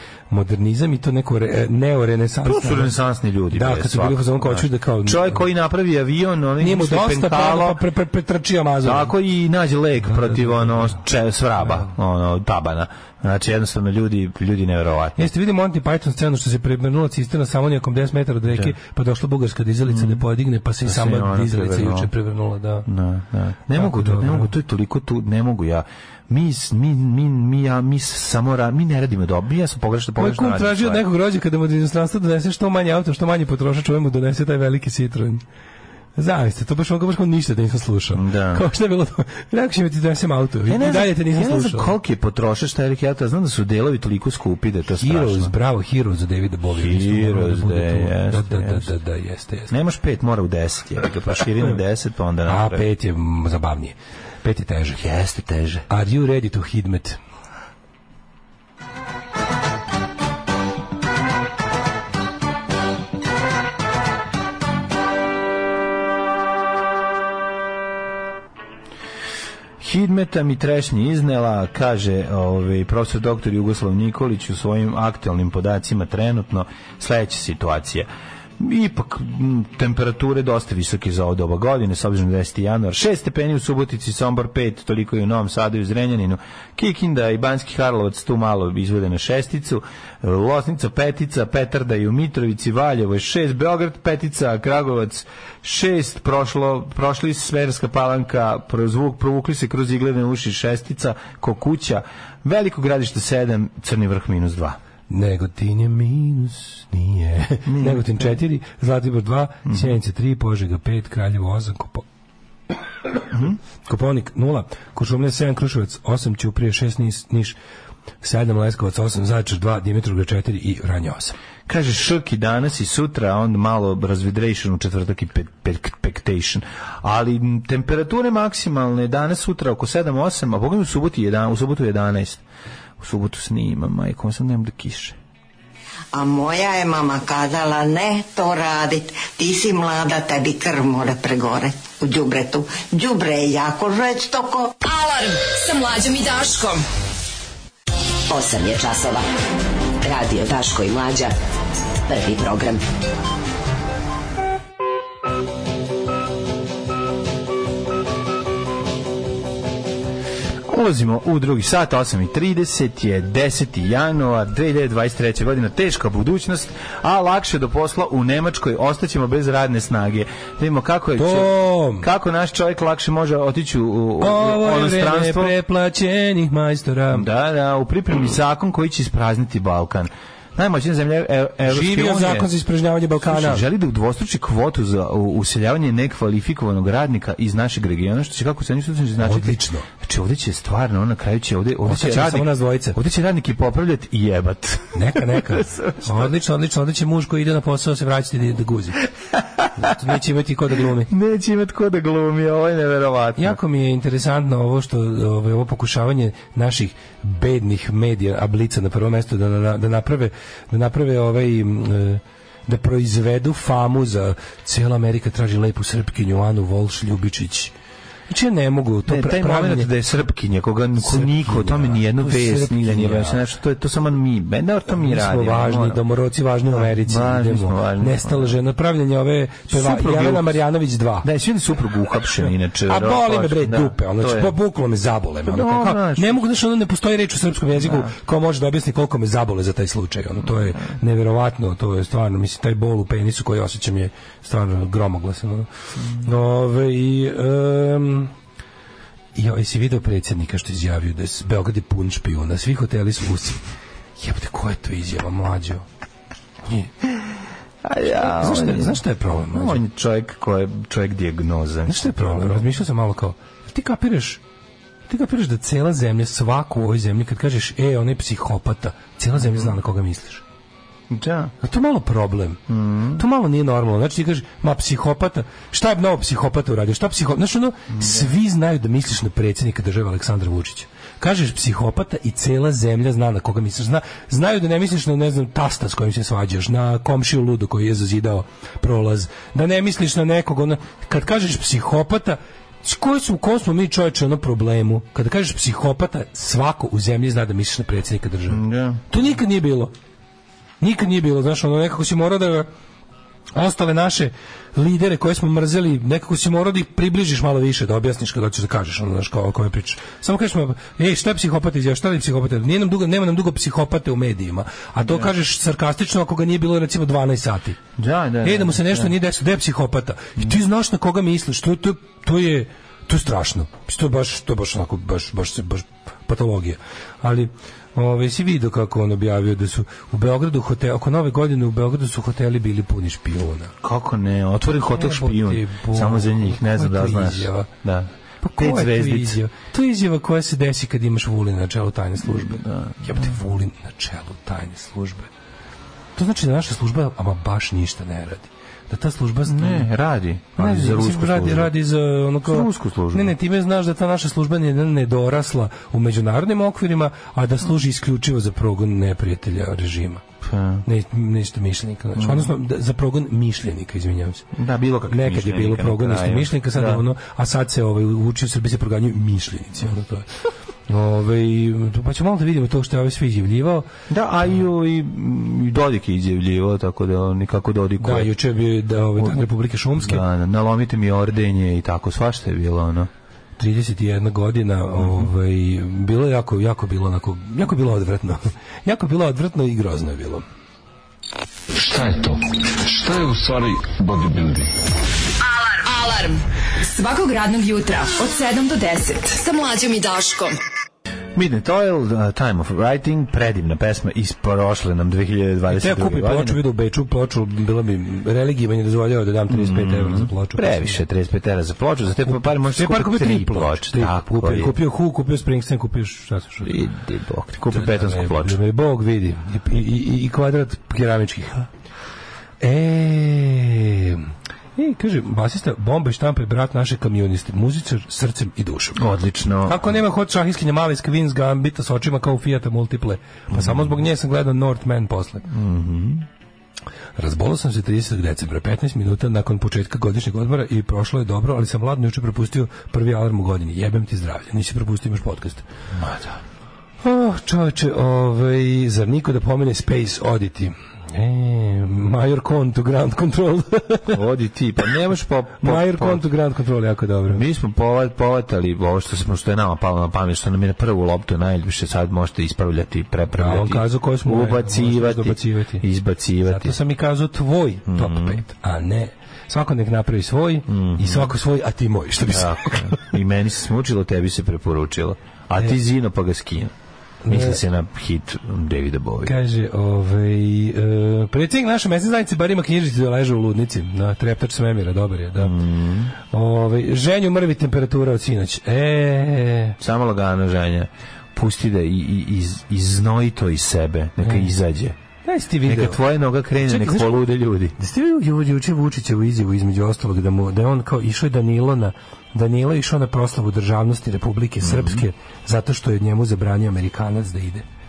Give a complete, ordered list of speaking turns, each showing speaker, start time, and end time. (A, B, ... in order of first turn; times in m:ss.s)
0:00.3-0:03.0 A
0:02.4-0:07.8 B
0:03.5-0:05.4 A
0:06.6-0:09.1 A
0:08.8-0:15.3 B
0:10.1-0:11.0 A
0:15.2-0:22.9 A
0:18.5-0:18.8 B
0:19.9-0:20.2 B
0:20.8-0:22.1 B
0:22.9-0:31.0 B
0:23.8-0:24.5 A
0:30.2-0:35.4 A
0:36.2-0:41.9 A
0:38.1-0:38.6 B
0:40.7-0:45.6 B
0:45.0-0:49.7 A
0:46.8-0:48.9 B
0:49.7-0:52.8 B
0:52.4-0:55.0 A
0:55.0-0:55.9 B
0:55.9-0:57.2 A
1:09.8-1:44.8 B
1:45.1-1:52.0 A
1:47.7-1:48.4 B
1:49.7-1:50.0 B
1:53.3-1:53.6 B
1:53.9-1:57.6 A
1:58.2-2:01.4 A
2:01.7-2:12.4 B
2:13.0-2:15.2 B
2:16.1-2:24.8 C
2:24.8-2:26.8 D
2:28.3-2:29.2 E
2:30.0-2:31.4 E
2:32.1-2:32.8 E
2:40.7-2:55.6 B
2:51.2-2:52.1 A
2:54.2-2:57.3 A
2:57.1-3:02.5 B
3:01.7-3:03.6 A
3:03.2-3:16.4 B
3:09.2-3:09.9 A
3:11.8-3:13.0 A
3:14.9-3:19.1 A
3:19.6-3:19.9 B
3:19.8-3:21.1 A
3:21.0-3:23.6 B
3:23.4-3:37.7 A
3:38.3-3:39.9 A
3:39.1-3:46.0 B
3:41.0-3:43.4 A
3:44.9-3:51.3 A
3:46.7-3:48.6 B
3:49.7-3:50.6 B
3:51.2-3:54.6 B
3:52.9-4:08.3 A
3:55.4-3:56.4 B
3:57.8-3:58.1 B
4:09.4-4:13.6 A
4:14.2-4:15.9 A
4:17.8-4:22.7 B
4:18.1-4:19.8 A
4:21.9-4:24.4 A
4:25.1-4:30.4 A
4:29.4-4:29.7 B
4:31.1-4:31.5 B
4:31.6-4:32.6 A
4:32.7-4:33.2 B
4:33.2-4:59.9 A
4:37.9-4:38.3 B
4:58.5-4:59.0 B
5:00.8-5:02.7 A
5:03.5-5:17.8 A
5:15.0-5:15.3 B
5:18.0-5:19.1 B
5:18.4-5:33.7 A
5:33.8-5:39.4 B
5:34.9-5:37.7 A
5:38.4-5:45.3 A
5:42.2-5:43.3 B
5:46.2-5:49.9 A
5:49.5-5:51.8 B
5:50.6-6:00.2 A
5:52.4-5:53.4 B
6:00.4-6:00.8 B
6:00.8-6:04.5 A
6:02.2-6:02.5 B
6:04.5-6:07.0 B
6:05.1-6:10.3 A
6:10.9-6:13.9 A
6:14.1-6:18.3 B
6:18.0-6:20.2 A
6:19.2-6:19.4 B
6:20.0-6:23.1 B
6:23.6-6:30.4 A
6:25.0-6:25.3 B
6:31.7-6:34.8 F
6:35.5-6:40.6 D
6:41.3-6:46.6 B
6:45.7-6:51.0 A
6:49.5-6:54.8 B
6:52.3-6:56.8 A
6:56.6-6:58.6 B
6:57.7-7:01.7 A
7:02.6-7:09.0 A
7:09.0-7:10.0 B
7:09.6-7:15.5 A
7:13.5-7:13.9 B
7:15.5-7:16.3 B
7:17.2-7:25.6 A
7:25.9-7:26.4 B
7:27.0-7:34.2 A
7:34.1-7:36.3 B
7:35.6-7:37.4 A
7:37.3-7:46.8 B
7:43.3-7:45.8 A
7:46.4-7:53.0 A
7:47.9-7:48.4 B
7:50.7-7:51.3 B
7:52.3-7:56.7 B
7:57.2-7:57.6 A
7:57.3-7:59.4 B
7:59.2-8:05.6 A
8:05.4-8:06.1 B
8:06.2-8:09.8 A
8:09.8-8:15.0 B
8:14.2-8:14.5 A
8:15.2-8:16.0 A
8:15.6-8:17.8 B
8:16.6-8:27.6 A
8:24.6-8:25.0 B